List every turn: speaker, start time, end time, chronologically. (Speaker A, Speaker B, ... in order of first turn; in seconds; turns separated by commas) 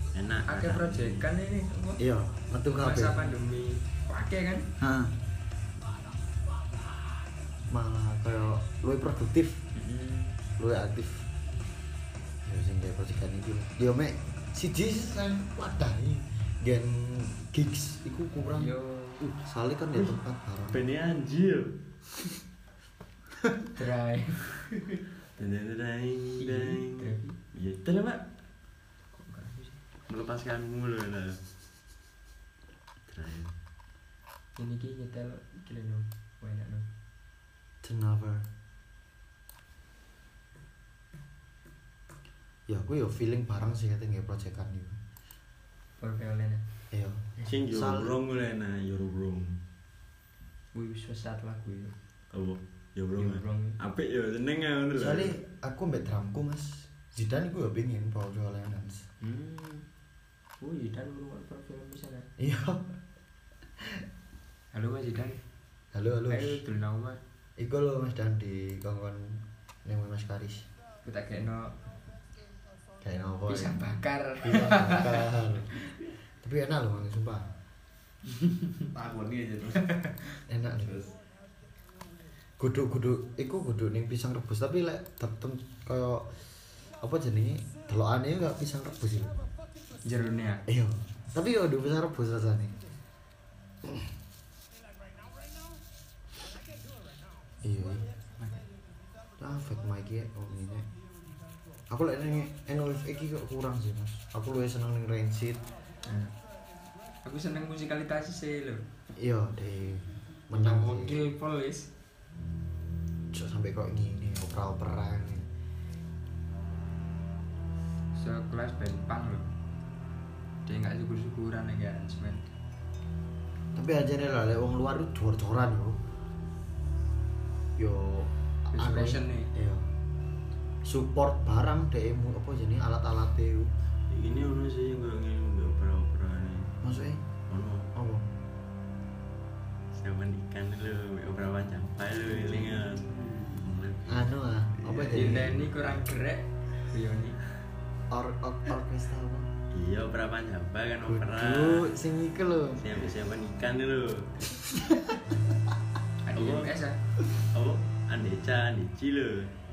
Speaker A: 0.1-1.2, Speaker B: 0.5-2.0, Speaker C: 2.0-3.3, Speaker B: 2.7-4.7, Speaker C: 7.7-9.7, Speaker B: 9.7-10.3, Speaker C: 10.6-11.3, Speaker C: 12.4-20.8, Speaker B: 18.6-19.2, Speaker A: 20.7-21.8, Speaker B: 23.7-24.5, Speaker A: 25.4-28.3, Speaker B: 26.4-27.4, Speaker B: 29.1-29.8, Speaker A: 30.1-31.4, Speaker A: 33.1-33.5, Speaker B: 34.6-36.9, Speaker C: 37.8-38.5, Speaker C: 42.7-45.0, Speaker B: 46.0-46.6, Speaker C: 46.9-48.1, Speaker A: 47.4-49.6, Speaker B: 50.7-51.9, Speaker A: 52.3-55.4, Speaker B: 53.2-53.8, Speaker C: 54.9-59.0, Speaker B: 59.2-59.9, Speaker B: 60.6-62.3, Speaker C: 62.4-62.9, Speaker B: 64.7-65.4, Speaker C: 65.9-66.6, Speaker B: 66.3-67.2, Speaker C: 67.6-70.7, Speaker B: 71.0-71.7, Speaker C: 73.0-75.7, Speaker B: 73.5-75.3, Speaker C: 76.4-77.5, Speaker A: 78.9-79.8, Speaker C: 80.5-81.0, Speaker C: 82.6-86.4, Speaker C: 87.0-89.4, Speaker B: 90.0-90.6, Speaker C: 90.7-92.8, Speaker C: 97.6-98.1, Speaker C: 99.4-100.8, Speaker C: 101.9-105.6, Speaker B: 106.0-106.3, Speaker B: 107.2-108.8, Speaker C: 109.1-111.2, Speaker B: 110.5-111.9, Speaker C: 113.3-115.5, Speaker B: 118.1-119.5, Speaker B: 120.6-122.5, Speaker C: 123.7-126.0, Speaker C: 127.8-129.9, Speaker B: 128.7-129.5, Speaker C: 130.8-133.7, Speaker A: 134.1-136.7, Speaker C: 136.8-137.2, Speaker A: 137.5-137.9, Speaker C: 137.9-138.3, Speaker A: 139.9-145.5, Speaker C: 144.1-145.7, Speaker B: 145.1-147.4, Speaker C: 148.1-149.5, Speaker A: 149.7-152.0, Speaker C: 151.0-152.9, Speaker A: 152.8-154.4, Speaker B: 156.2-157.0, Speaker A: 156.3-156.7, Speaker A: 157.5-159.5